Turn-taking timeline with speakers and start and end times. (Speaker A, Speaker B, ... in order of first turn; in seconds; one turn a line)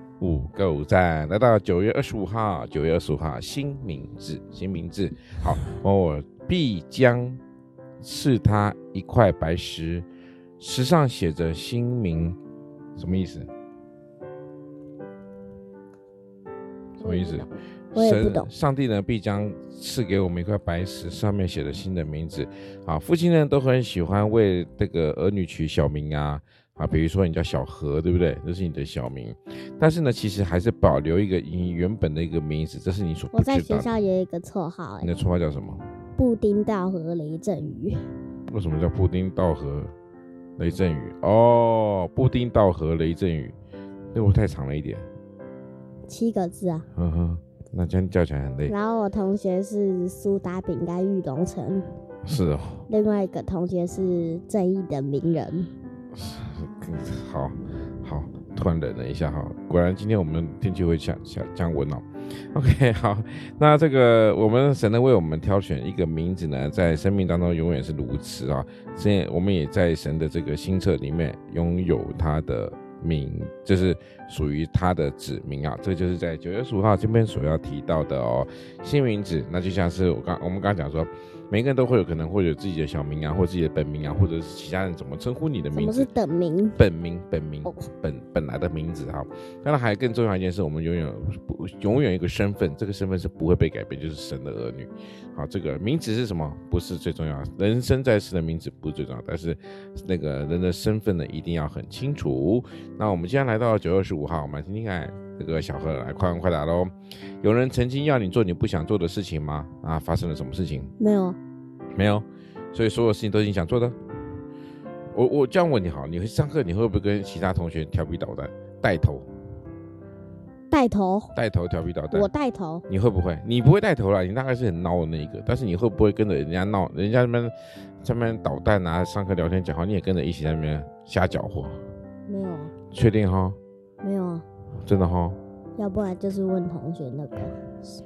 Speaker A: 0.2-7.4
Speaker A: 8.0-10.1
Speaker A: 10.6-12.4
Speaker A: 12.9-13.5
Speaker B: 17.0-18.5
Speaker A: 17.0-33.9
Speaker B: 33.3-35.1
Speaker A: 35.0-35.8
Speaker B: 36.2-38.0
Speaker A: 38.5-39.9
Speaker A: 40.6-43.5
Speaker A: 44.1-45.0
Speaker B: 46.1-46.9
Speaker A: 47.0-48.7
Speaker B: 48.7-51.9
Speaker A: 52.2-52.9
Speaker B: 52.9-55.7
Speaker A: 56.1-86.1
Speaker B: 85.7-86.8
Speaker A: 86.8-110.9
Speaker B: 111.0-111.4
Speaker A: 111.9-114.0
Speaker A: 115.1-119.3
Speaker B: 120.7-121.3
Speaker A: 121.3-122.3
Speaker B: 122.1-122.8
Speaker A: 122.9-131.8
Speaker B: 132.3-132.7
Speaker A: 132.9-133.6
Speaker B: 134.0-134.4
Speaker A: 134.8-135.4
Speaker B: 135.8-137.6